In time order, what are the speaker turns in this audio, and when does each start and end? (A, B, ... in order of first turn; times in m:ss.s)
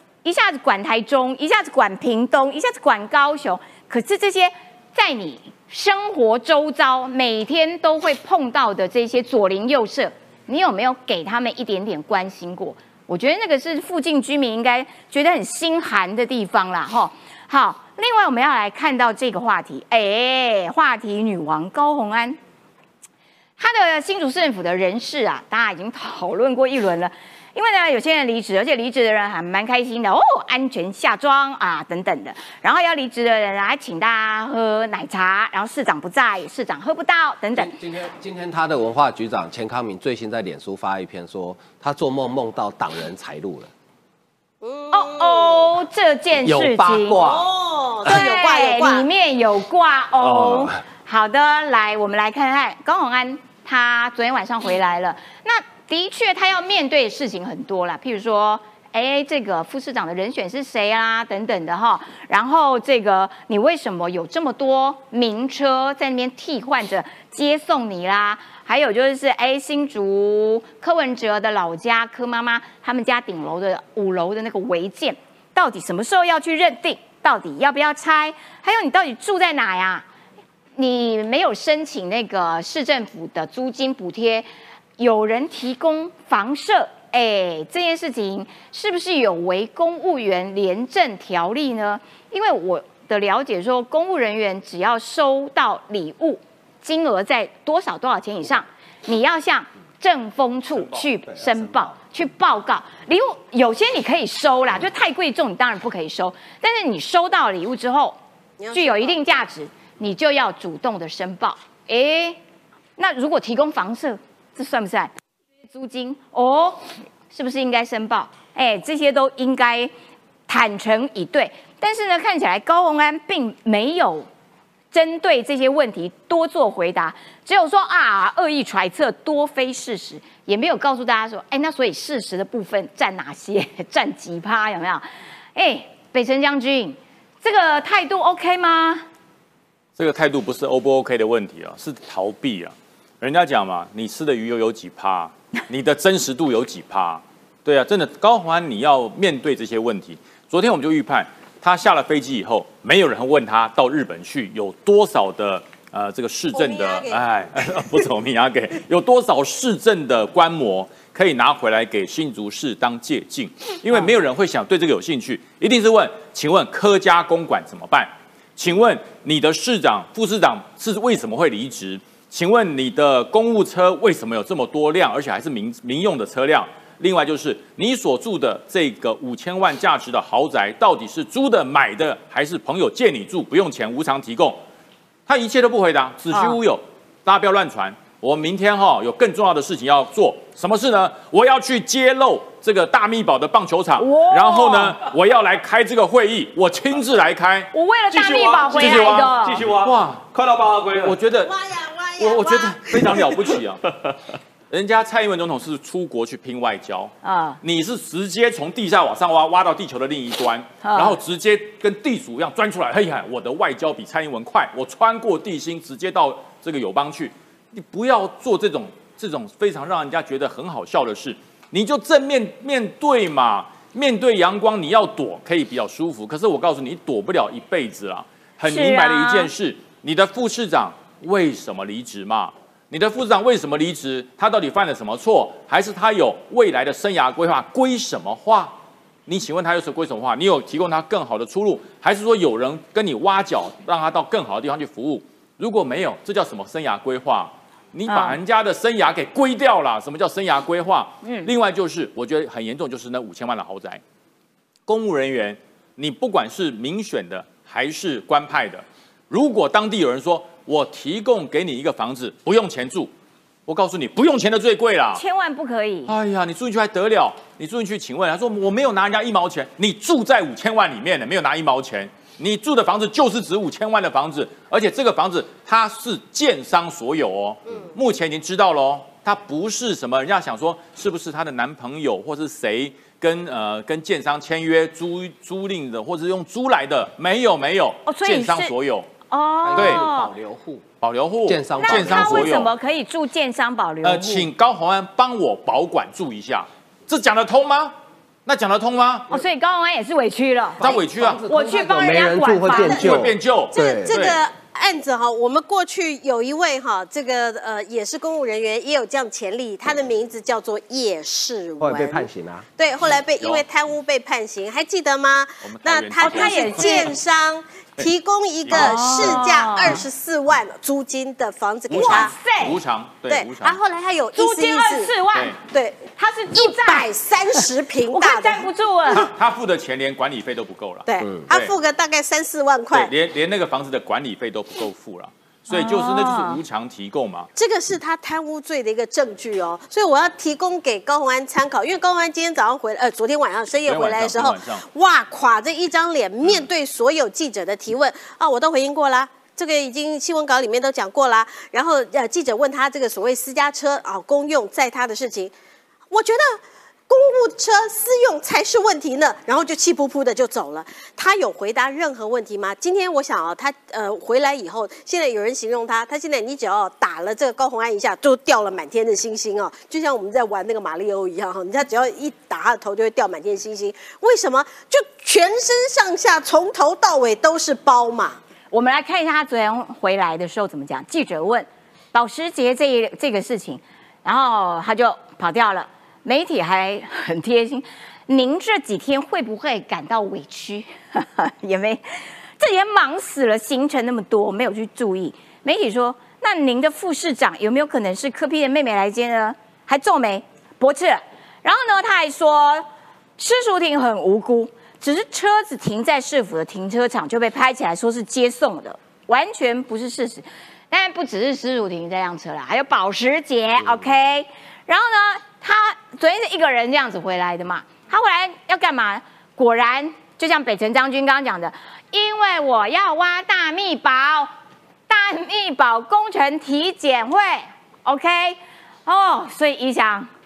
0:00.2-0:22.4 A
0:23.6-0:37.8 A
0:37.6-0:43.7 B
0:44.6-0:45.7 C
0:44.9-0:47.2 A
0:46.4-0:47.4 B
0:47.2-0:49.0 C
0:48.0-1:20.0 A
0:50.2-0:50.8 B
1:20.8-1:24.5 A
1:25.0-1:48.2 A
1:48.6-1:49.4 C
1:48.7-1:52.4 A
1:53.0-1:55.1 A
1:55.7-1:59.9 A
2:00.5-2:04.3 A
2:04.9-2:19.0 A
2:20.0-3:04.6 D
2:36.5-2:37.2 C
3:05.3-3:17.7 D
3:06.3-3:06.6 A
3:14.0-3:15.0 A
3:17.7-3:19.6 A
3:18.1-3:21.2 E
3:18.3-3:20.3 D
3:20.9-3:21.5 D
3:21.4-3:23.4 C
3:22.2-3:23.8 D
3:24.7-4:14.0 D
3:27.2-3:27.6 A
3:30.8-3:31.2 A
3:48.6-3:49.5 A
4:08.1-4:08.4 A
4:11.2-4:11.5 A
4:14.9-4:23.1 D
4:23.7-4:25.2 D
4:25.1-4:26.2 A
4:26.1-4:49.1 D
4:48.0-4:48.7 A
4:49.3-4:50.3 A
4:49.7-4:50.8 B
4:49.8-4:50.0 D
4:51.0-4:52.7 D
4:51.4-4:52.6 B
4:51.8-4:54.5 A
4:54.0-4:57.9 D
4:58.4-4:59.3 D
4:59.3-5:03.1 A
5:00.8-5:01.4 D
5:00.9-5:04.2 B
5:02.8-5:04.4 D
5:03.7-5:12.3 C
5:11.8-5:12.7 B
5:12.8-5:22.3 C
5:13.4-5:13.6 D
5:15.6-5:17.1 D
5:16.2-5:17.1 A
5:18.6-5:19.4 D
5:18.7-5:20.0 A
5:21.9-5:23.8 D
5:21.9-5:22.8 A
5:23.3-5:28.6 C
5:24.4-5:25.6 A
5:26.2-5:29.3 A
5:29.1-5:31.7 D
5:31.1-5:33.1 C
5:32.9-5:37.5 D
5:35.7-5:36.6 A
5:37.6-5:55.5 C
5:43.9-5:44.8 D
5:56.1-6:18.4 C
6:18.7-6:32.0 A
6:32.6-6:42.8 A
6:43.4-7:04.5 A
7:05.1-7:10.3 A